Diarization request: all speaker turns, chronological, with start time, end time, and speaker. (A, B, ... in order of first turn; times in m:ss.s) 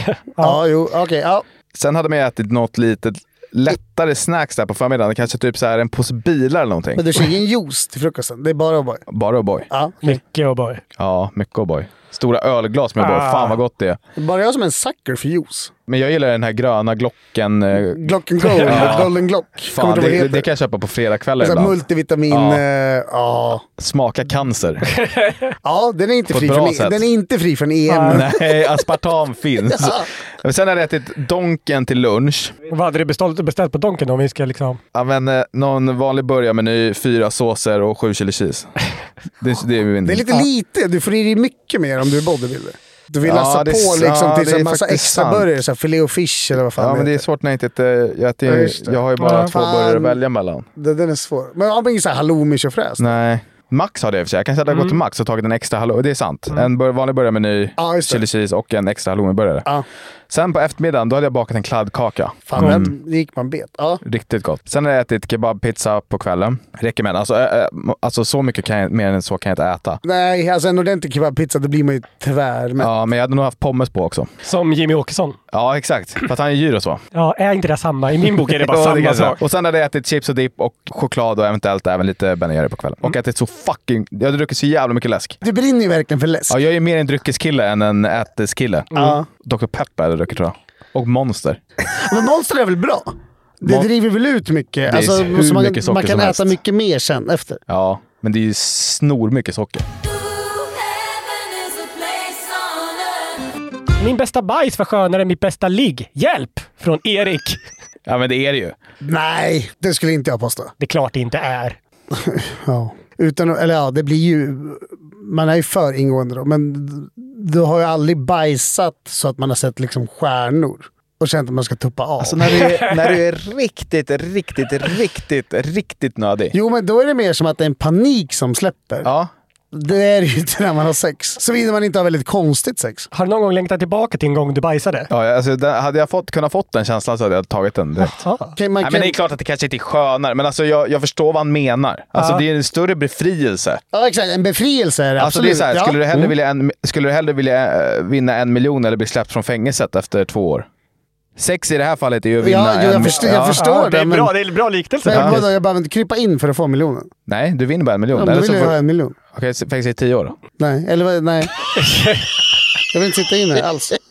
0:00.4-0:01.5 A
0:01.7-0:07.1 B
0:07.0-0:09.1 A
0:09.1-0:09.7 B
0:09.7-0:10.2 A
0:10.0-0:10.8 C
0:11.0-0:14.0 B
0:13.0-0:13.6 C
0:14.2-0:15.7 A
0:15.9-0:18.1 B
0:17.9-0:20.5 A
0:18.7-0:19.1 B
0:19.7-0:21.8 B
0:21.4-0:23.6 A
0:22.3-0:22.6 B
0:23.8-0:24.8 B
0:25.0-0:25.6 C
0:25.6-0:28.4 A
0:26.3-0:27.0 B
0:27.9-0:28.2 C
0:28.1-0:32.6 B
0:29.7-0:30.1 A
0:32.7-0:34.8 C
0:34.9-0:38.8 B
0:39.4-0:40.3 B
0:40.0-0:47.2 A
0:43.2-0:45.5 B
0:46.8-0:50.7 B
0:48.4-0:50.2 A
0:49.2-0:49.5 C
0:50.8-0:53.0 A
0:53.0-0:59.7 B
0:54.7-0:55.0 C
0:57.8-0:58.2 A
1:00.3-1:02.9 B
1:02.5-1:04.0 A
1:04.0-1:10.0 B
1:10.0-1:12.9 A
1:12.8-1:14.3 B
1:14.4-1:15.4 C
1:15.5-1:17.0 B
1:17.1-1:19.4 C
1:18.5-1:25.4 B
1:25.4-1:26.6 A
1:26.5-1:31.6 B
1:28.9-1:29.2 C
1:29.0-1:29.2 A
1:31.9-1:37.6 A
1:34.9-1:36.6 B
1:37.7-1:39.9 B
1:44.0-1:47.6 C
1:48.1-1:48.8 B
1:49.0-1:50.7 A
1:50.8-1:51.8 C
1:52.1-2:02.5 A
2:02.2-2:06.5 B
2:06.5-2:09.1 A
2:09.0-2:09.3 B
2:09.7-2:13.1 A
2:13.1-2:15.1 C
2:15.1-2:18.2 B
2:18.0-2:18.5 C
2:18.6-2:19.2 A
2:18.8-2:23.8 B
2:23.9-2:26.3 A
2:25.2-2:30.7 B
2:31.4-2:33.6 B
2:32.4-2:34.3 A
2:33.5-2:35.5 C
2:35.0-2:37.1 A
2:35.1-2:35.4 B
2:37.3-2:38.8 B
2:38.1-2:39.2 A
2:39.3-2:40.4 B
2:40.6-2:41.5 A
2:41.8-2:42.3 C
2:42.9-2:44.0 A